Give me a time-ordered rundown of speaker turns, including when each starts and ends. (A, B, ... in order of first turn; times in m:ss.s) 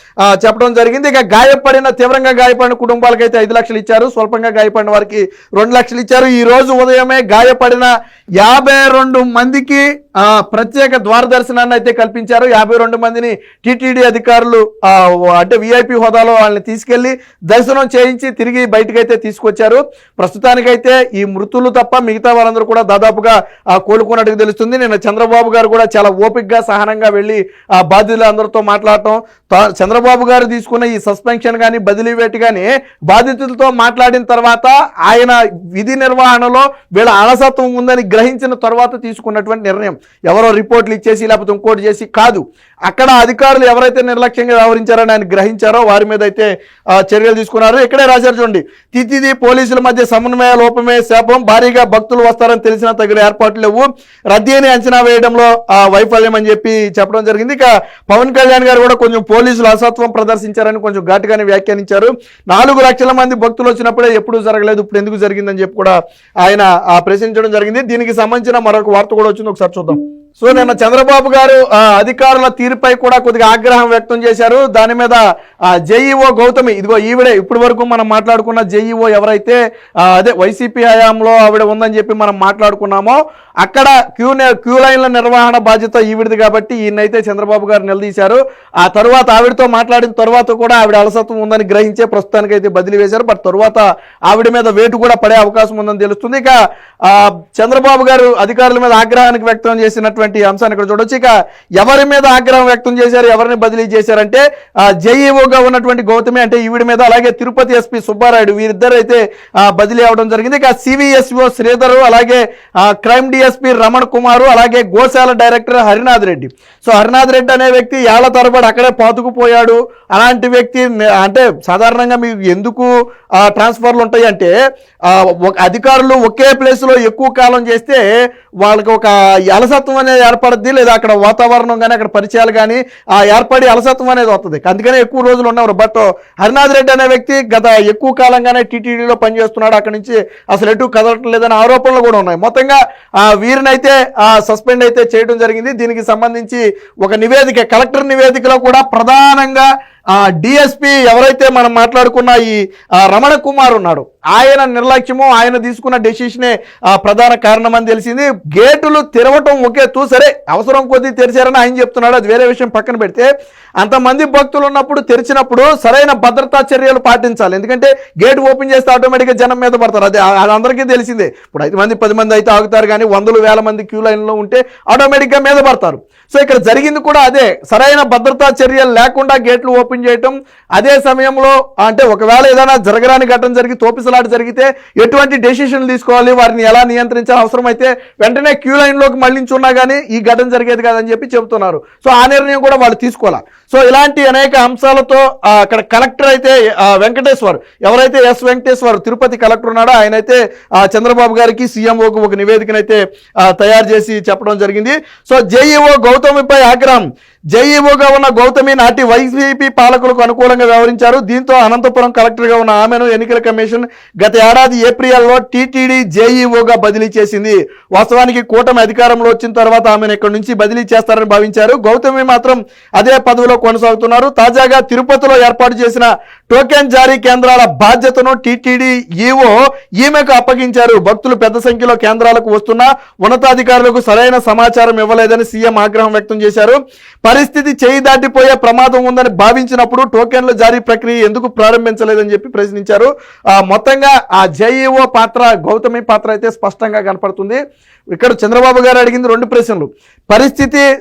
0:00.2-1:15.2 A
1:15.8-2:04.5 A
2:05.1-2:08.0 A
2:08.6-2:43.3 A
2:43.8-4:07.6 A
4:08.1-4:10.8 A